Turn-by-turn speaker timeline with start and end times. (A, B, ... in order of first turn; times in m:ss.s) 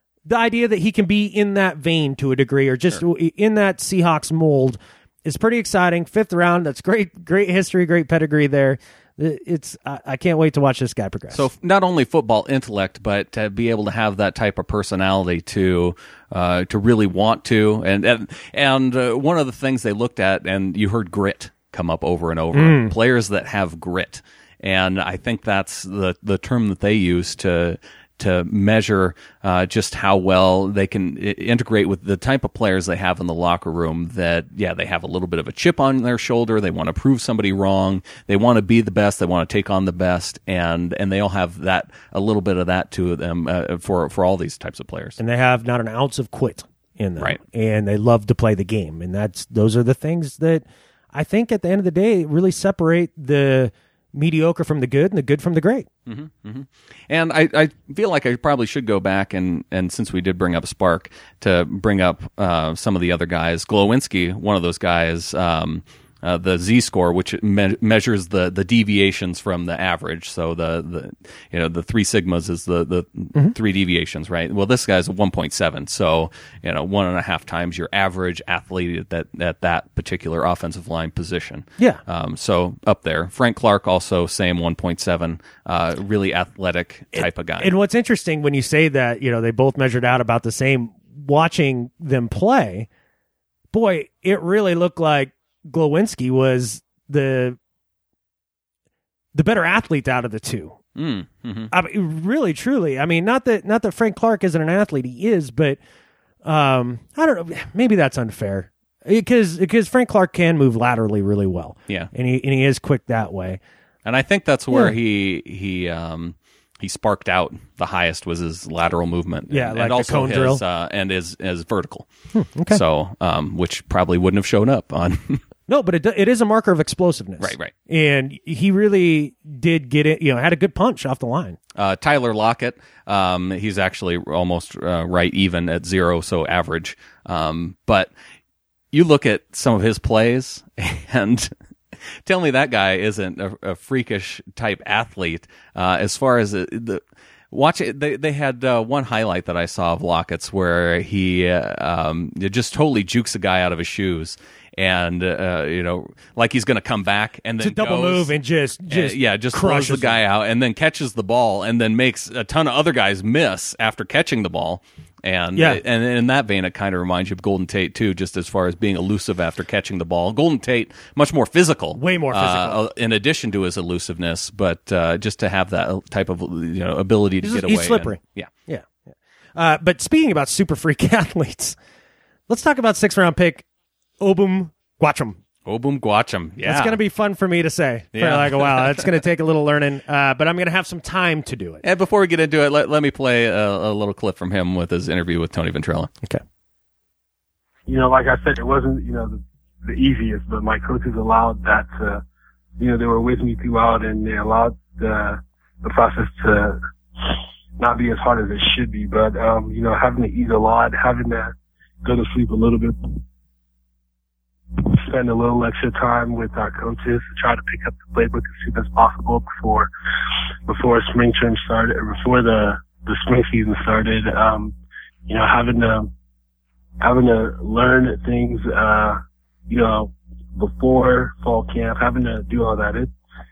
0:00.3-0:11.4 A
0:11.3-0:45.2 B
0:22.5-0:22.9 A
0:45.2-0:55.9 A
0:56.1-1:27.7 B
1:27.1-1:32.9 A
1:33.7-1:37.6 A
1:39.3-1:40.8 A
1:41.0-1:41.7 B
1:41.7-1:45.8 A
1:46.4-1:53.6 A
1:54.0-2:02.1 B
1:59.5-2:00.6 A
2:02.3-2:02.8 A
2:02.7-2:05.4 B
2:05.7-2:11.6 A
2:07.4-2:07.7 B
2:11.8-2:18.1 B
2:18.9-2:21.5 B
2:22.2-2:38.3 B
2:37.6-2:40.2 A
2:38.9-2:58.5 B
2:45.6-2:45.8 A
2:52.0-2:52.8 A
2:57.4-2:58.9 A
2:59.6-3:01.8 A
3:02.5-3:03.6 A
3:04.2-3:05.4 A
3:05.7-3:07.0 B
3:06.6-3:11.8 A
3:08.1-3:09.1 B
3:11.8-3:16.1 B
3:17.9-3:22.2 C
3:22.8-3:33.2 C
3:34.8-3:39.9 C
3:40.7-3:44.8 C
3:45.3-3:46.1 C
3:47.0-3:53.1 C